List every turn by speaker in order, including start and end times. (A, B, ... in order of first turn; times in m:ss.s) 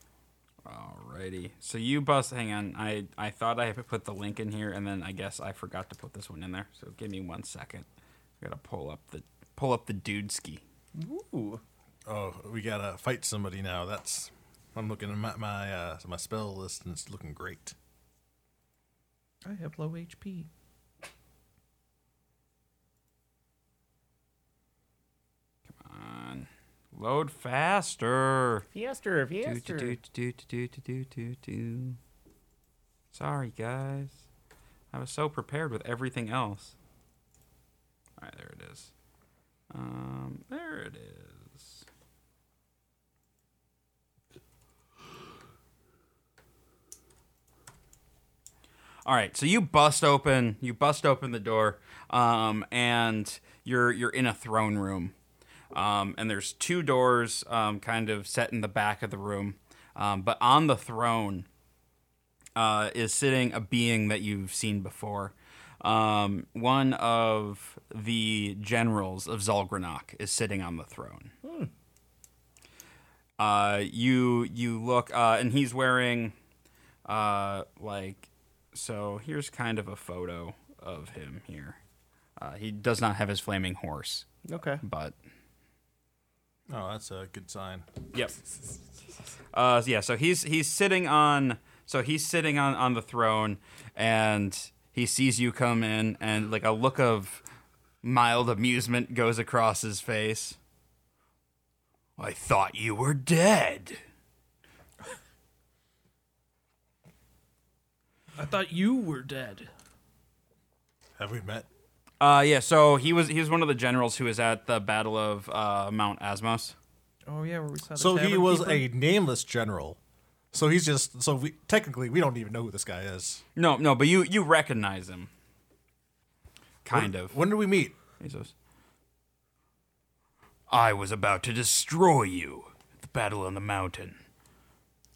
0:00.6-0:07.8 A
0:08.4-0:10.6 A
0:11.0-0:11.6 B
0:12.0-0:17.7 C
0:19.4-0:20.5 D
0:25.8-0:28.7 A
0:28.7-0:30.0 B
0:29.4-0:32.0 A
0:33.1-0:34.2 A
0:34.9-0:36.7 A
0:38.2-0:38.9 A
0:39.7-0:41.8 A
0:49.0-0:55.1 A
0:55.7-1:01.5 A
1:02.6-1:11.3 A
1:11.4-1:11.7 B
1:13.4-1:16.3 A
1:17.0-1:21.8 A
1:22.4-1:24.3 A
1:24.5-1:24.8 B
1:24.8-1:25.2 A
1:26.7-1:27.9 C
1:28.1-1:28.4 A
1:29.5-1:37.4 A
1:38.0-1:40.6 A
1:42.2-1:44.0 A
1:48.4-1:49.7 D
1:51.2-1:51.6 C
1:52.2-1:56.7 A
1:57.2-1:58.9 D
1:58.0-2:00.0 C
2:00.5-2:03.4 C
2:03.6-2:05.3 A
2:06.8-2:07.4 A
2:06.9-2:08.0 C
2:08.2-2:08.5 A
2:10.7-2:14.2 A